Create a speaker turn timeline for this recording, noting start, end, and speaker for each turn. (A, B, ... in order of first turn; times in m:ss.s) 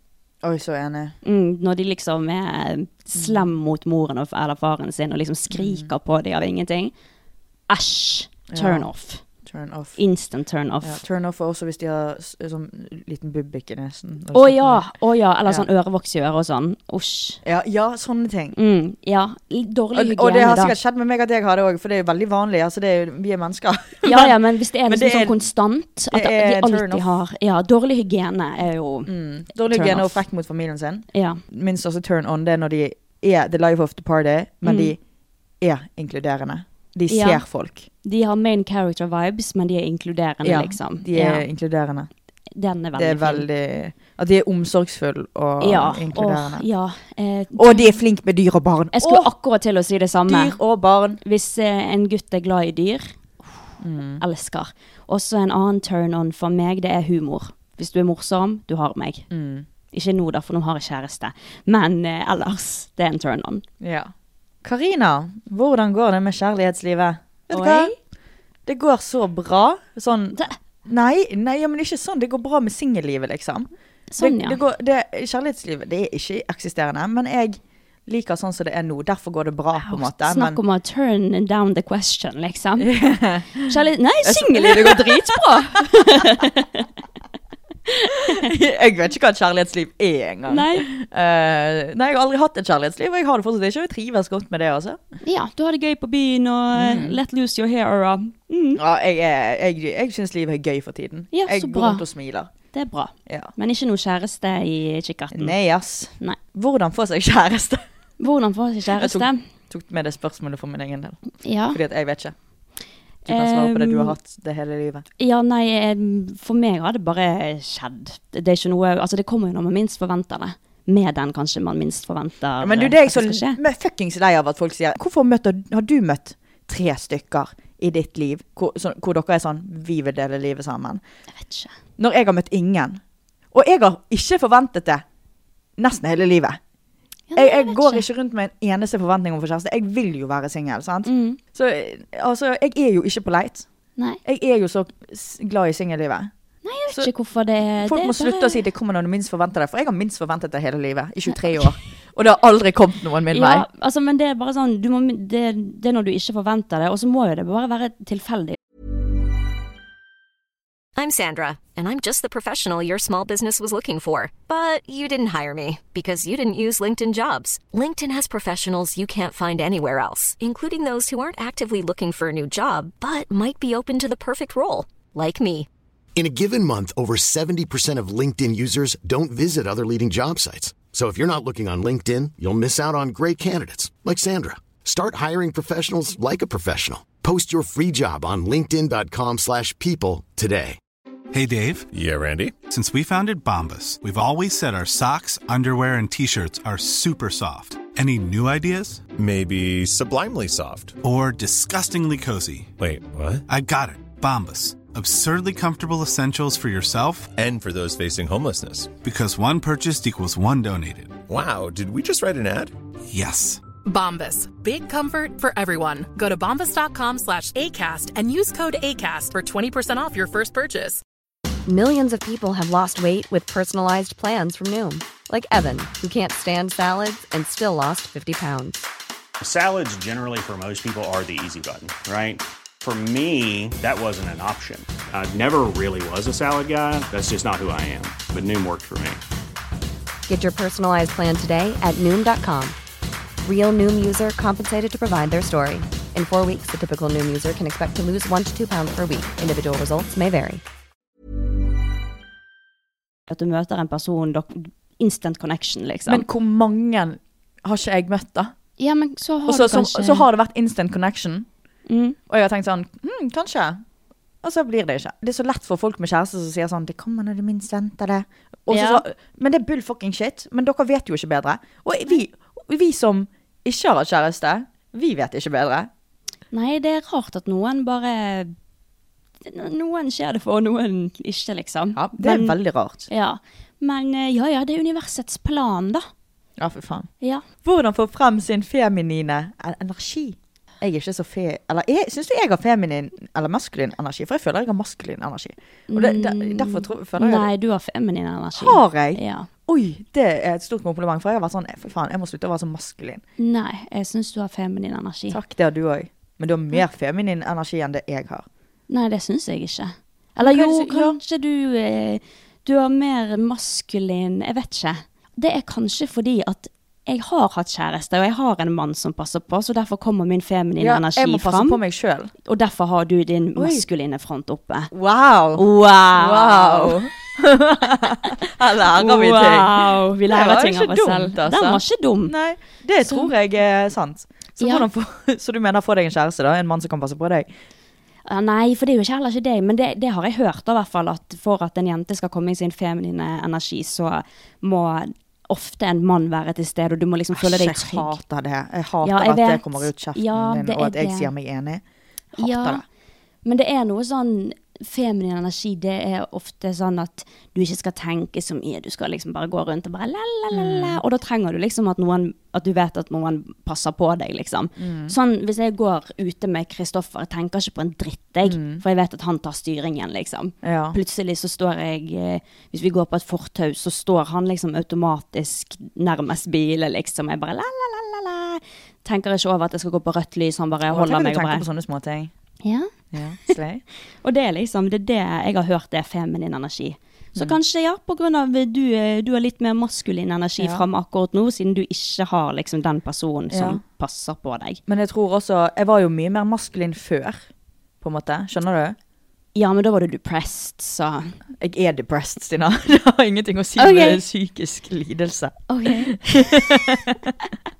0:00.4-0:01.1 A
0:01.2-0:06.9 B
0:03.1-0:03.5 A
0:05.5-0:05.9 A
0:07.7-0:09.2 B
0:08.5-0:08.9 A
0:09.4-0:10.0 A
0:10.0-0:11.0 B
0:10.8-0:14.9 A
0:14.3-0:17.4 B
0:17.4-0:18.6 A
0:18.6-0:20.7 B
0:19.9-0:25.4 A
0:24.0-0:29.1 B
0:26.1-0:27.1 A
0:29.0-0:35.0 A
0:29.7-0:30.2 B
0:31.1-0:31.4 B
0:34.6-0:34.9 B
0:35.6-0:37.9 A
0:37.1-0:37.4 B
0:38.0-0:41.4 B
0:40.4-0:42.1 A
0:42.5-0:43.5 B
0:42.9-0:46.6 A
0:45.6-0:48.0 B
0:47.5-0:49.3 A
0:48.9-0:50.6 B
0:50.3-0:51.2 A
0:51.2-0:53.2 B
0:53.8-0:54.2 A
0:54.2-0:59.3 B
0:59.3-0:59.6 A
0:59.9-1:03.6 B
1:03.8-1:04.1 A
1:04.6-1:07.9 A
1:07.5-1:08.0 B
1:08.6-1:20.6 A
1:14.1-1:14.6 B
1:19.8-1:23.0 B
1:22.8-1:26.4 A
1:23.6-1:26.9 B
1:27.9-1:28.5 B
1:28.3-1:35.0 A
1:30.5-1:30.9 B
1:35.2-1:38.8 B
1:36.7-1:37.2 A
1:38.8-1:42.5 A
1:41.3-1:42.0 B
1:42.7-1:45.5 B
1:43.3-1:43.5 A
1:45.3-1:47.8 A
1:48.2-1:49.4 B
1:48.9-1:52.3 A
1:51.4-1:51.8 B
1:53.2-1:55.0 A
1:53.3-1:54.1 B
1:55.2-2:03.6 B
2:02.6-2:11.0 A
2:11.4-2:11.7 B
2:12.0-2:15.0 A
2:15.8-2:16.6 A
2:17.3-2:18.0 B
2:17.3-2:23.6 A
2:21.0-2:21.4 B
2:24.2-2:26.3 A
2:26.6-2:28.6 B
2:27.8-2:33.7 A
2:31.4-2:31.7 B
2:33.3-2:38.6 B
2:40.9-2:55.7 C
2:56.1-3:10.8 D
3:11.3-3:11.9 E
3:11.9-3:12.6 F
3:12.7-3:19.1 E
3:19.1-3:21.0 F
3:21.0-3:22.7 E
3:22.8-3:23.4 F
3:23.5-3:27.3 E
3:27.3-3:28.9 F
3:29.0-3:31.2 E
3:31.3-3:32.7 F
3:33.1-3:33.6 E
3:33.8-3:41.0 G
3:41.6-3:48.9 H
3:49.4-3:59.2 I
4:00.3-4:02.8 H
4:03.4-4:10.6 H
4:13.3-4:16.2 B
4:16.1-4:18.5 A
4:18.8-4:20.3 B
4:19.4-4:21.5 A
4:21.9-4:22.2 B
4:22.3-4:23.8 A
4:24.4-4:35.9 A
4:28.7-4:29.0 B
4:36.5-4:38.5 B
4:39.4-4:42.6 B
4:41.9-4:43.1 A
4:43.1-4:46.0 B
4:46.6-4:47.1 A
4:47.6-4:57.5 A
4:55.9-4:59.5 B
4:58.6-5:03.2 A
5:03.4-5:05.4 B
5:05.3-5:08.4 A
5:08.9-5:21.8 B
5:10.4-5:11.2 A
5:20.8-5:22.3 A
5:22.4-5:24.9 B
5:23.6-5:23.8 A
5:24.9-5:37.5 A
5:25.6-5:27.0 B
5:28.0-5:28.3 B
5:28.9-5:32.3 B
5:33.0-5:33.3 B
5:34.6-5:34.9 B
5:38.2-5:48.2 B
5:47.3-5:51.8 A
5:49.0-5:51.3 B
5:52.4-5:52.8 B
5:52.4-5:52.8 A
5:53.4-6:21.6 B
6:00.5-6:01.0 A
6:04.8-6:05.1 A
6:08.4-6:08.8 A
6:10.6-6:11.0 A
6:20.9-6:22.3 A
6:22.6-6:22.9 B
6:23.1-6:23.8 A
6:24.2-6:34.8 B
6:33.5-6:33.8 A
6:34.9-6:37.4 A
6:38.0-6:39.0 A
6:39.5-6:41.4 B
6:41.6-6:47.3 A
6:43.8-6:44.2 B
6:45.7-6:47.1 B